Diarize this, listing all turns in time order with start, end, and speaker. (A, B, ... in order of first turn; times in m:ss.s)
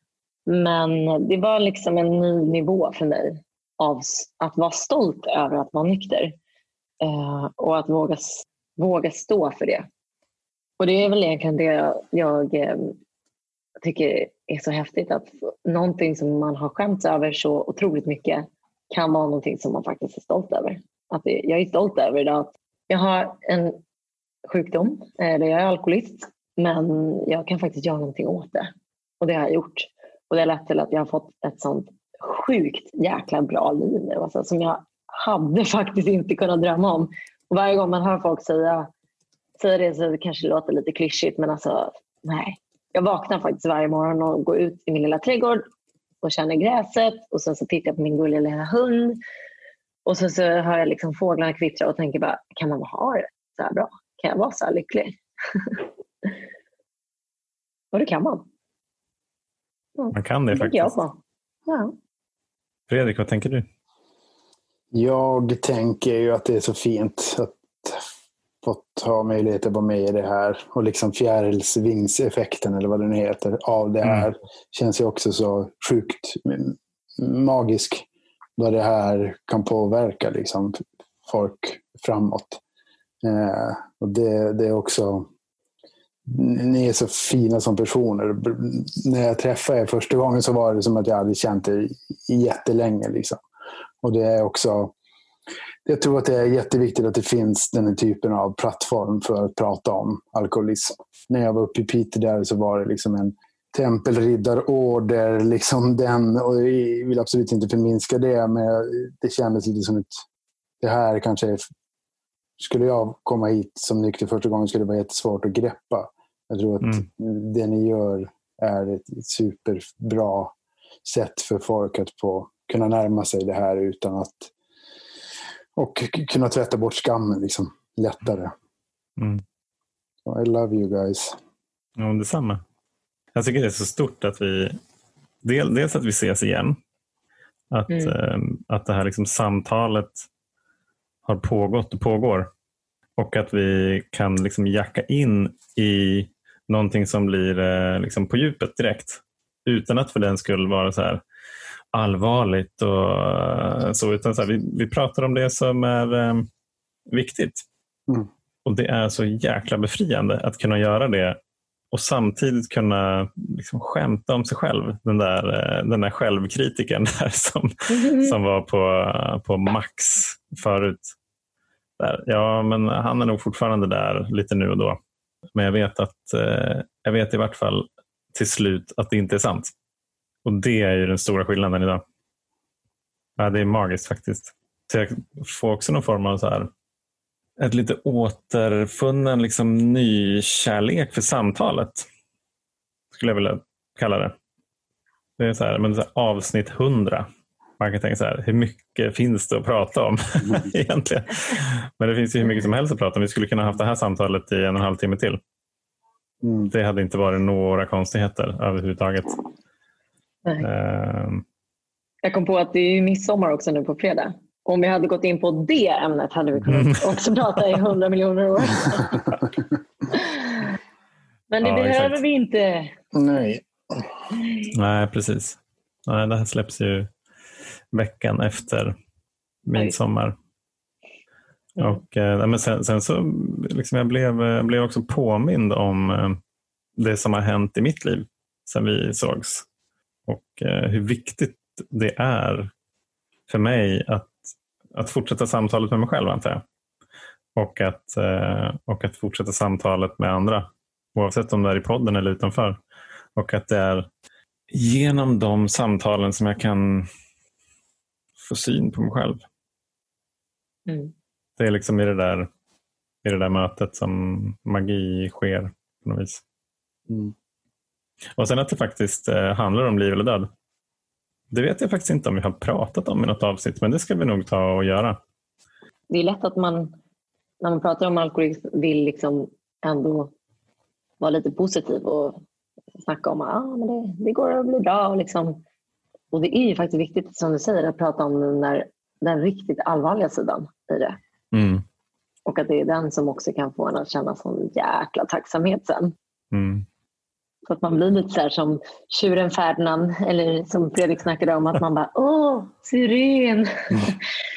0:00.5-0:06.3 A
0:07.0-0:09.8 A
0:10.8-0:13.0 A
0:13.8-0:23.8 A
0:24.5-0:38.9 A
0:39.6-0:45.6 A
0:46.2-0:49.2 A
0:50.0-0:56.3 A
0:57.9-0:58.4 A
1:00.0-1:01.9 A
1:00.1-1:00.9 B
1:02.9-1:03.6 B
1:04.9-1:08.1 C
1:08.6-1:18.0 C
1:18.6-1:22.6 C
1:23.2-1:25.3 C
1:26.2-1:33.4 C
1:34.0-1:34.9 C
1:35.8-1:50.2 C
1:50.8-1:51.6 C
1:52.6-2:00.5 C
2:01.0-2:04.5 C
2:05.8-2:08.5 C
2:09.2-2:09.4 B
2:10.2-2:11.4 C
2:12.0-2:12.6 B
2:13.3-2:14.8 B
2:15.4-2:16.8 B
2:17.7-2:20.2 B
2:17.9-2:18.1 A
2:21.2-2:22.5 B
2:23.2-2:31.2 B
2:31.9-2:36.5 B
2:37.1-2:37.6 B
2:38.6-2:41.4 B
2:41.9-2:51.1 B
2:47.9-2:48.3 A
2:52.0-2:55.0 B
2:55.5-2:59.7 B
3:00.4-3:02.0 B
3:03.4-3:06.7 B
3:07.6-3:12.1 B
3:13.1-3:14.3 B
3:15.4-3:17.3 B
3:17.8-3:25.4 B
3:26.4-3:26.7 C
3:26.7-3:29.4 B
3:30.6-3:31.4 B
3:32.2-3:39.2 A
3:36.7-3:37.2 B
3:40.1-3:40.6 A
3:41.5-3:42.9 A
3:41.6-3:42.2 B
3:43.1-3:44.1 C
3:44.7-3:47.1 B
3:47.9-3:48.9 B
3:49.6-3:50.3 B
3:51.8-3:56.4 B
3:57.0-3:59.6 B
4:00.3-4:02.7 B
4:03.5-4:04.4 B
4:04.9-4:06.6 B
4:07.5-4:12.8 B
4:13.4-4:14.1 B
4:14.7-4:17.1 B
4:18.4-4:19.4 B
4:20.9-4:21.1 A
4:21.6-4:22.5 B
4:23.2-4:26.4 B
4:28.4-4:30.5 B
4:31.5-4:35.2 B
4:36.1-4:36.9 A
4:37.6-4:40.3 A
4:41.2-4:42.4 A
4:43.0-4:45.6 A
4:46.3-4:51.2 A
4:51.5-4:51.8 B
4:52.4-4:56.1 A
4:56.5-4:56.8 B
4:57.7-5:04.2 A